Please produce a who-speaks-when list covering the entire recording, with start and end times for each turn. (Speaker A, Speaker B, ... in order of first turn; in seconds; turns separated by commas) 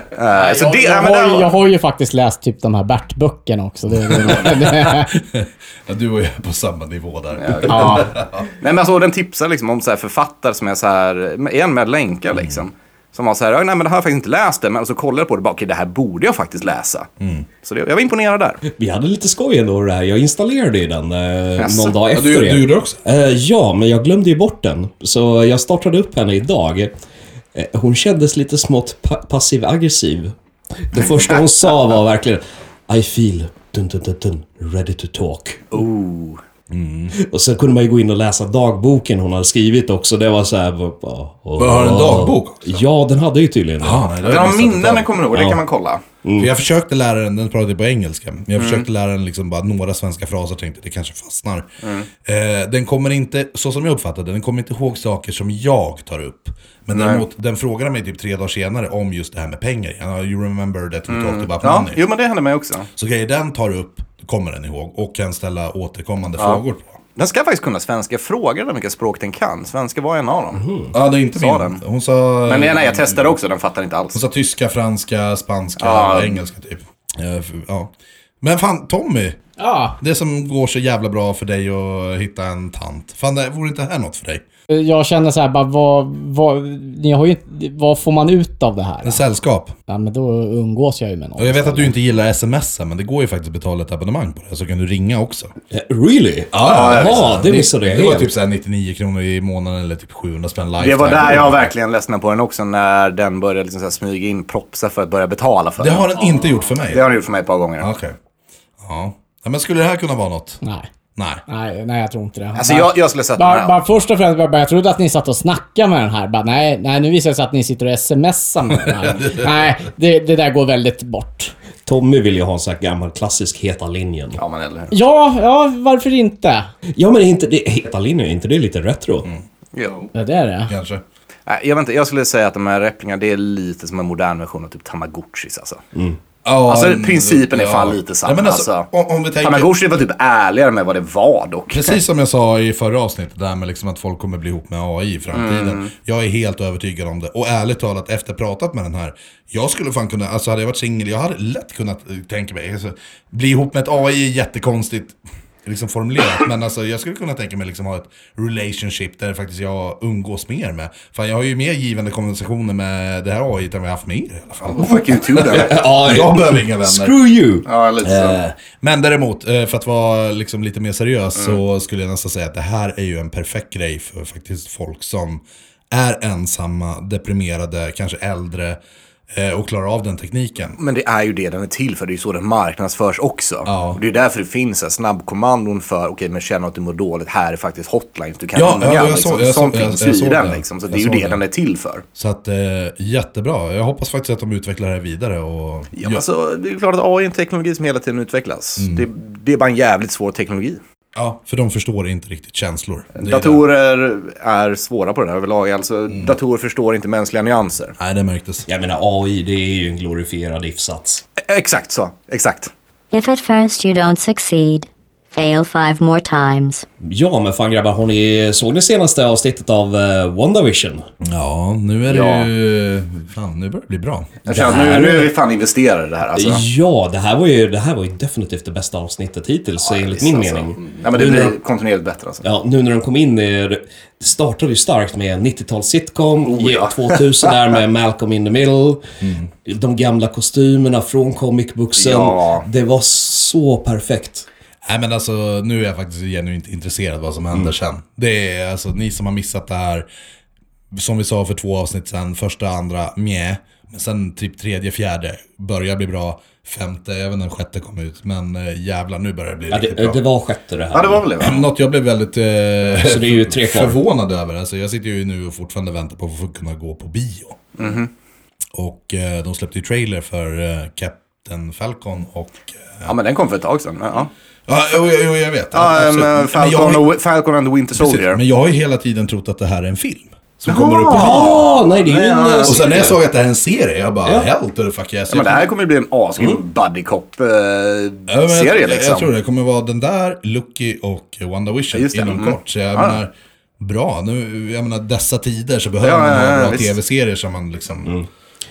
Speaker A: 0.1-1.6, Speaker B: 0.3-5.1, Speaker C: 3.9-8.5, Speaker A: 7.4-8.1, Speaker B: 7.7-8.1, Speaker A: 8.6-17.1, Speaker C: 12.3-12.6, Speaker C: 17.2-17.5, Speaker A: 17.6-18.6, Speaker D: 18.7-26.9, Speaker A: 21.6-22.0, Speaker C: 22.1-23.0, Speaker D: 27.6-35.8, Speaker A: 35.7-36.4, Speaker C: 36.7-37.2, Speaker D: 37.1-44.1, Speaker C: 41.6-42.9, Speaker C: 43.8-45.2, Speaker A: 44.2-46.0, Speaker D: 46.2-46.5, Speaker C: 46.4-51.7, Speaker A: 48.6-48.9, Speaker A: 51.8-52.1, Speaker C: 52.2-62.0, Speaker A: 56.9-57.2, Speaker A: 61.1-62.9, Speaker C: 63.0-67.0, Speaker A: 67.2-70.7, Speaker D: 70.6-70.9, Speaker C: 70.9-73.3, Speaker A: 71.3-71.8, Speaker A: 72.5-74.2, Speaker C: 74.1-79.4, Speaker A: 75.8-76.4, Speaker B: 79.6-80.0, Speaker C: 80.0-84.4, Speaker B: 84.7-89.2, Speaker C: 89.0-89.8, Speaker B: 89.9-91.9, Speaker C: 91.4-95.5, Speaker D: 95.7-98.3, Speaker C: 96.5-101.7, Speaker A: 96.6-97.3, Speaker A: 100.8-106.3, Speaker C: 105.8-107.1, Speaker A: 106.9-107.9, Speaker C: 107.8-108.2, Speaker C: 108.8-110.6, Speaker B: 110.6-110.9, Speaker C: 111.2-111.4, Speaker B: 111.5-121.5, Speaker A: 112.6-113.8, Speaker C: 118.7-119.7, Speaker D: 121.9-124.4, Speaker A: 124.4-124.9, Speaker B: 124.9-126.7, Speaker D: 127.0-129.3, Speaker A: 129.7-130.1, Speaker B: 130.2-130.7, Speaker C: 130.7-131.0, Speaker A: 131.5-135.8, Speaker C: 136.4-139.8, Speaker A: 136.7-138.9, Speaker A: 139.4-142.0, Speaker C: 141.7-167.2, Speaker A: 145.3-145.9, Speaker A: 164.7-165.8, Speaker D: 165.5-167.7, Speaker A: 167.7-168.4, Speaker C: 168.0-178.8, Speaker C: 179.3-180.8, Speaker A: 180.8-192.0, Speaker C: 183.7-184.0, Speaker C: 188.6-191.4, Speaker C: 192.2-196.2, Speaker A: 195.9-200.8, Speaker C: 198.8-199.1, Speaker C: 201.2-203.6, Speaker A: 203.2-208.0, Speaker C: 206.1-206.4, Speaker C: 208.0-208.7, Speaker D: 208.7-211.2, Speaker A: 211.4-212.7, Speaker E: 213.1-216.8, Speaker D: 217.0-221.1, Speaker C: 221.2-224.4, Speaker A: 222.1-222.5, Speaker A: 224.4-226.6, Speaker D: 224.5-225.3, Speaker D: 226.4-231.6, Speaker A: 229.8-232.4, Speaker D: 232.4-239.0, Speaker A: 236.5-237.8, Speaker C: 239.2-239.5, Speaker D: 239.7-244.5, Speaker A: 242.0-242.7, Speaker C: 244.8-250.1, Speaker C: 250.9-260.2, Speaker D: 259.7-261.3, Speaker A: 260.9-261.7, Speaker C: 261.4-267.6, Speaker D: 263.0-264.0, Speaker A: 267.8-268.1, Speaker C: 268.8-273.1, Speaker A: 273.1-274.3, Speaker C: 274.7-277.1, Speaker A: 275.7-278.4, Speaker C: 277.9-281.7, Speaker A: 280.7-283.1, Speaker D: 281.1-283.2, Speaker C: 282.6-285.7, Speaker D: 284.2-284.5, Speaker A: 285.3-289.3, Speaker C: 288.3-298.2, Speaker A: 291.9-293.2, Speaker A: 296.0-296.9